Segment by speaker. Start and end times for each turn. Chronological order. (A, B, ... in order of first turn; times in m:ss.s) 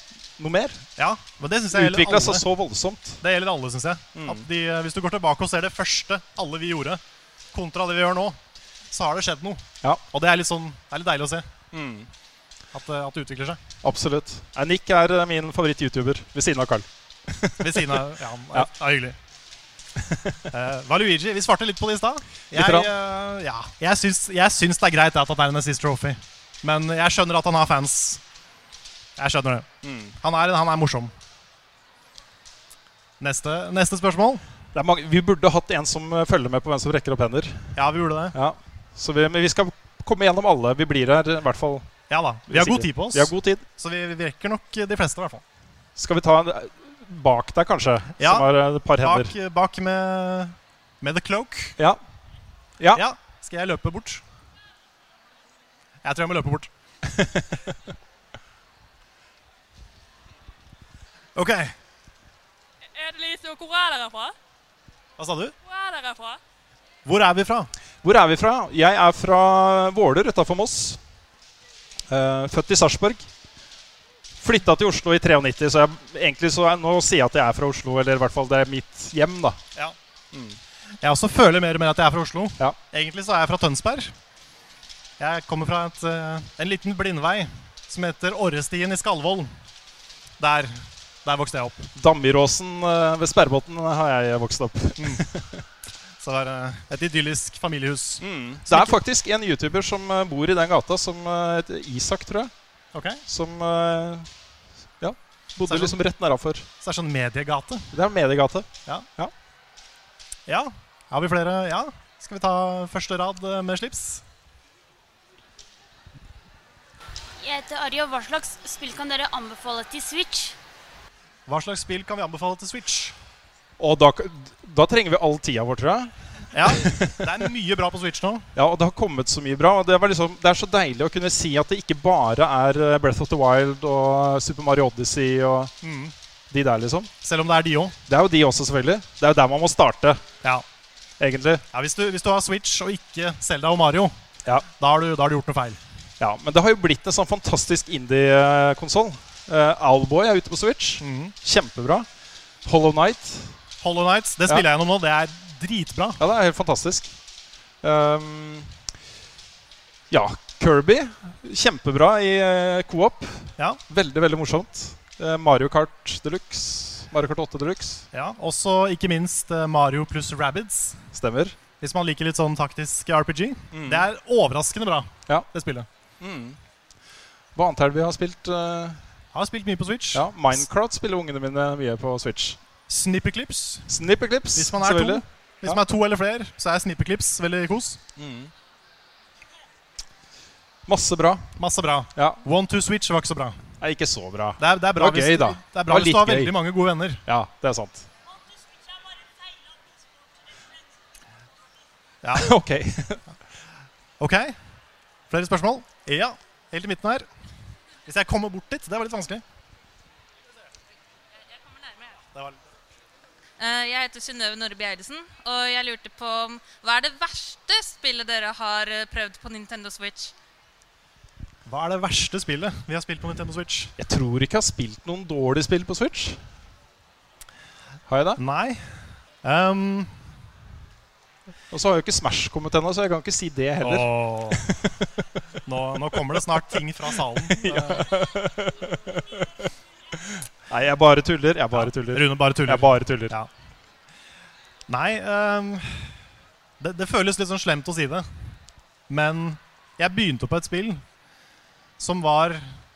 0:00.4-0:00.9 A
0:01.0-0:02.4 B
0:01.7-0:03.2 A
0:03.2-0:07.0 B
0:04.2-0:04.4 A
0:07.5-0:08.4 B
0:08.9-0:11.5 B
0:11.7-0:12.1 A
0:12.7-0:13.6 B
0:13.8-0:18.0 A
0:17.6-0:19.2 B
0:20.5-0:28.2 B
0:22.5-0:22.9 A
0:29.2-0:29.7 B
0:29.8-0:30.2 A
0:30.2-0:31.1 B
0:33.2-0:34.4 B
0:34.7-0:37.7 A
0:37.8-0:38.4 B
0:38.3-0:41.9 A
0:42.1-0:45.4 B
0:42.5-0:43.6 A
0:46.0-0:49.3 A
0:48.2-0:51.8 B
0:52.9-0:54.2 B
0:56.0-0:56.7 B
1:01.4-1:01.7 B
1:02.9-1:04.3 C
1:05.2-1:05.5 B
1:05.6-1:06.4 C
1:07.0-1:07.7 B
1:08.0-1:11.0 A
1:12.1-1:13.3 A
1:14.4-1:19.6 A
1:20.3-1:20.6 A
1:21.0-1:24.1 B
1:25.2-1:29.5 B
1:30.4-1:31.9 B
1:32.0-1:35.4 A
1:35.0-1:35.2 B
1:36.2-1:39.0 B
1:38.2-1:42.5 A
1:42.9-1:43.2 B
1:43.3-1:44.3 A
1:45.0-1:46.6 A
1:45.7-1:46.0 B
1:46.8-1:47.9 B
1:47.9-1:49.3 A
1:50.5-1:54.2 B
1:57.4-2:00.6 D
2:01.5-2:03.1 B
2:03.8-2:06.1 A
2:06.5-2:08.5 B
2:06.7-2:07.1 A
2:08.6-2:15.7 A
2:15.8-2:16.1 B
2:16.5-2:17.1 A
2:17.2-2:18.0 B
2:18.1-2:20.2 A
2:21.2-2:21.6 A
2:21.7-2:24.2 B
2:24.7-2:25.8 B
2:26.2-2:32.1 A
2:31.0-2:31.4 B
2:32.6-2:33.6 A
2:33.8-2:36.2 B
2:36.2-2:37.1 A
2:37.8-2:38.7 A
2:40.1-2:48.1 A
2:48.1-2:51.0 B
2:51.1-2:51.6 A
2:51.8-2:55.9 B
2:53.7-2:54.1 A
2:56.2-2:56.6 A
2:57.6-2:59.0 A
2:59.3-3:00.6 B
3:00.1-3:02.6 A
3:02.9-3:03.9 B
3:03.9-3:05.8 A
3:04.6-3:08.0 B
3:08.2-3:08.5 A
3:10.9-3:11.5 A
3:11.6-3:13.6 B
3:13.8-3:16.5 A
3:14.6-3:17.2 B
3:17.3-3:18.1 A
3:22.2-3:22.5 B
3:22.4-3:23.2 A
3:24.2-3:24.6 B
3:25.3-3:27.3 B
3:28.1-3:29.4 B
3:33.6-3:40.3 E
3:41.6-3:43.9 B
3:44.0-3:46.4 A
3:48.1-3:48.4 A
3:48.4-3:50.2 B
3:51.7-3:54.8 A
3:53.8-3:54.6 B
3:55.6-3:58.1 B
3:57.5-3:59.4 A
4:00.7-4:03.4 A
4:01.8-4:03.5 B
4:04.9-4:06.1 B
4:06.8-4:08.3 B
4:09.1-4:11.0 B
4:12.0-4:12.7 B